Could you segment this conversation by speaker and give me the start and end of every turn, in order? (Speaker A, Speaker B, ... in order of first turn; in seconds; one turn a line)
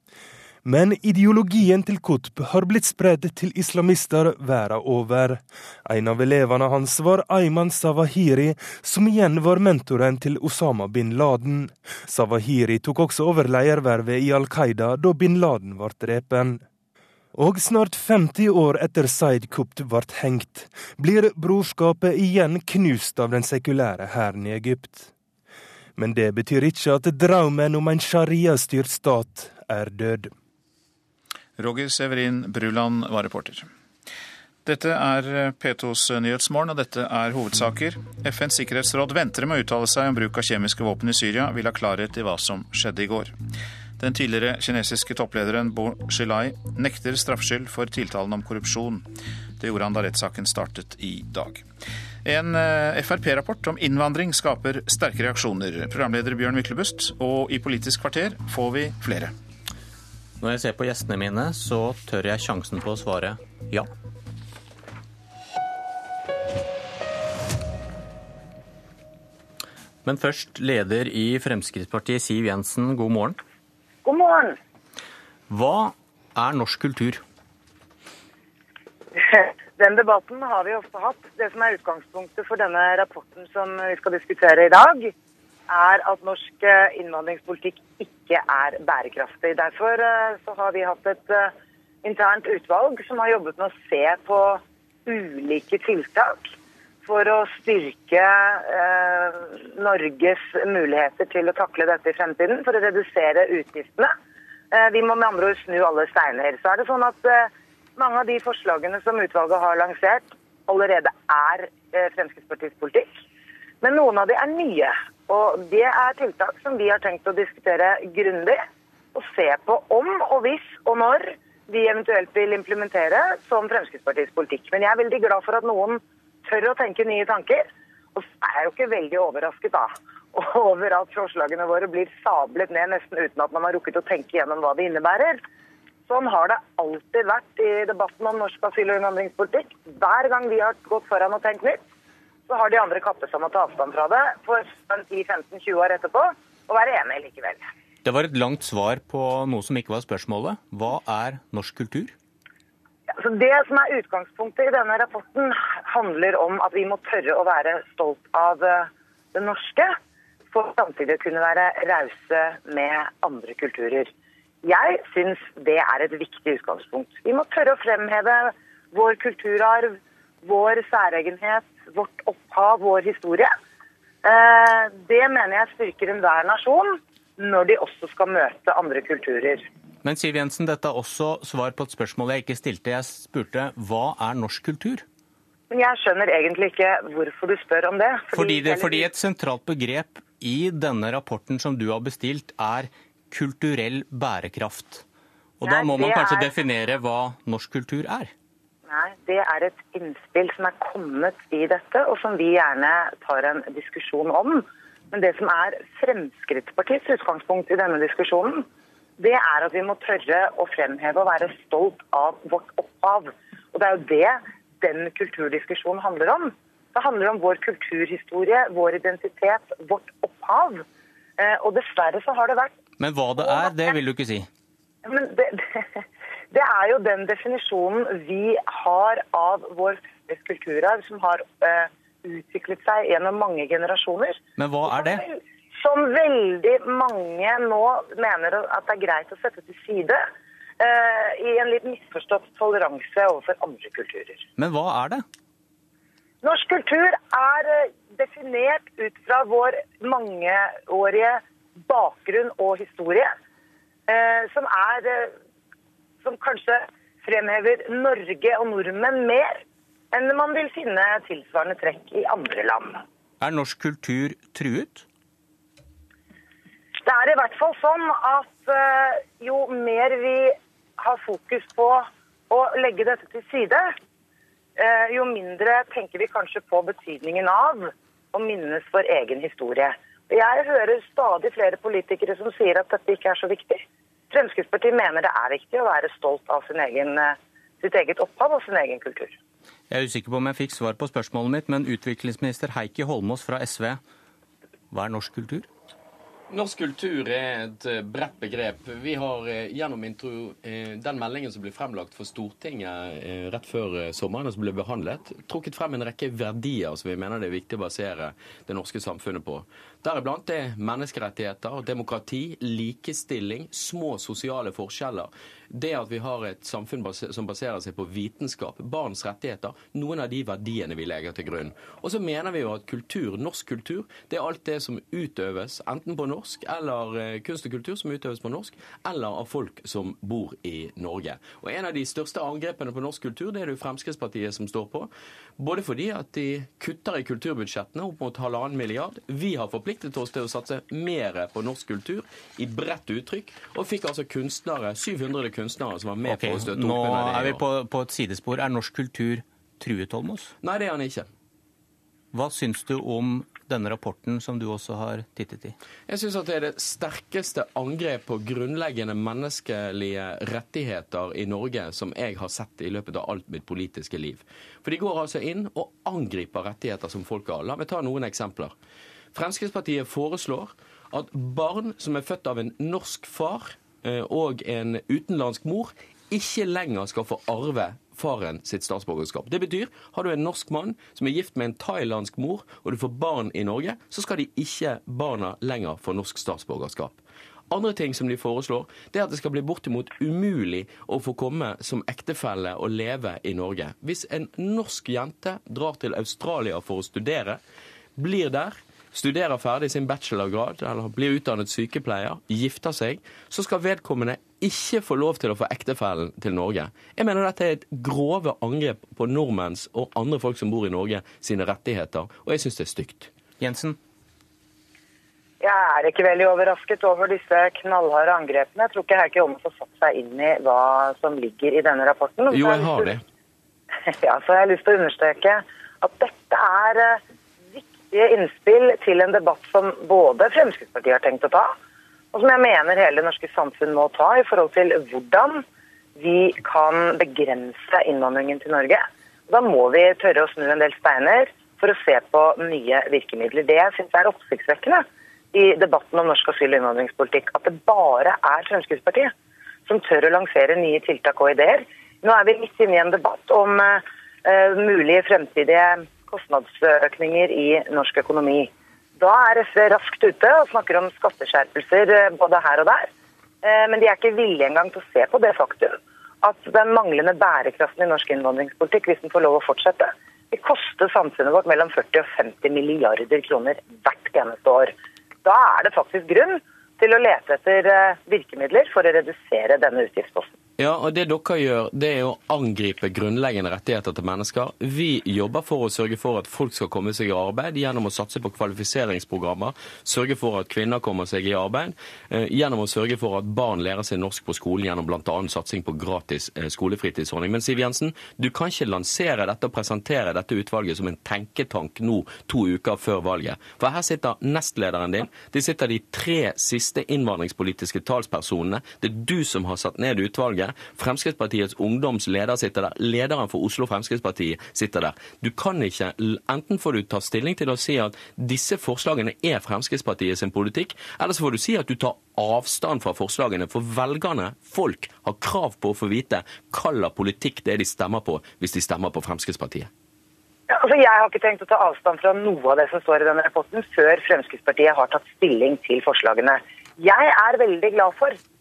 Speaker A: 0.7-16.6
Speaker A: 17.4-25.1
Speaker A: 26.0-30.3
Speaker B: 31.6-33.7
Speaker B: 34.6-43.4
Speaker B: 44.0-49.1
Speaker B: 49.6-51.6
Speaker B: 52.2-59.3
Speaker C: 60.4-63.9
Speaker C: 70.0-73.4
Speaker D: 74.0-74.6
Speaker C: 75.5-77.2
Speaker D: 79.2-85.1
Speaker D: 85.7-91.5
Speaker D: 92.0-96.5
Speaker D: 97.1-104.1
Speaker D: 104.7-113.2
Speaker D: 113.8-118.6
Speaker D: 119.2-135.4
Speaker D: 136.1-141.8
Speaker D: 142.5-147.6
Speaker C: 148.1-152.1
Speaker D: 153.2-160.0
Speaker D: 160.5-164.1
Speaker D: 164.7-173.5
Speaker D: 174.2-179.7
Speaker C: 180.0-185.1
Speaker D: 185.7-189.1
Speaker C: 188.3-195.0
Speaker C: 195.6-198.3
Speaker D: 195.6-196.6
Speaker D: 198.9-208.7
Speaker D: 209.2-220.8
Speaker D: 221.4-222.7
Speaker C: 223.0-224.5
Speaker D: 223.4-223.9
Speaker D: 225.1-225.8
Speaker D: 226.5-240.2
Speaker C: 234.6-235.2
Speaker D: 240.8-244.5
Speaker C: 244.6-245.2
Speaker D: 246.4-253.3
Speaker D: 254.1-255.3
Speaker D: 256.2-259.6
Speaker D: 260.1-263.0
Speaker C: 263.4-265.1
Speaker D: 267.0-273.9
Speaker D: 274.8-289.4
Speaker C: 289.9-294.0
Speaker C: 294.9-295.7
Speaker E: 296.5-347.6
Speaker C: 346.2-350.5
Speaker E: 350.6-351.3
Speaker C: 352.3-355.8
Speaker E: 356.1-368.7
Speaker E: 369.3-397.6
Speaker E: 398.2-413.3
Speaker C: 413.6-414.0
Speaker D: 415.6-423.1
Speaker E: 422.5-423.2
Speaker D: 424.1-427.2
Speaker D: 427.7-431.7
Speaker D: 432.3-435.6
Speaker D: 436.2-449.3
Speaker D: 449.9-463.1
Speaker D: 463.6-474.9
Speaker D: 475.4-480.5
Speaker E: 480.8-529.9
Speaker D: 530.7-538.4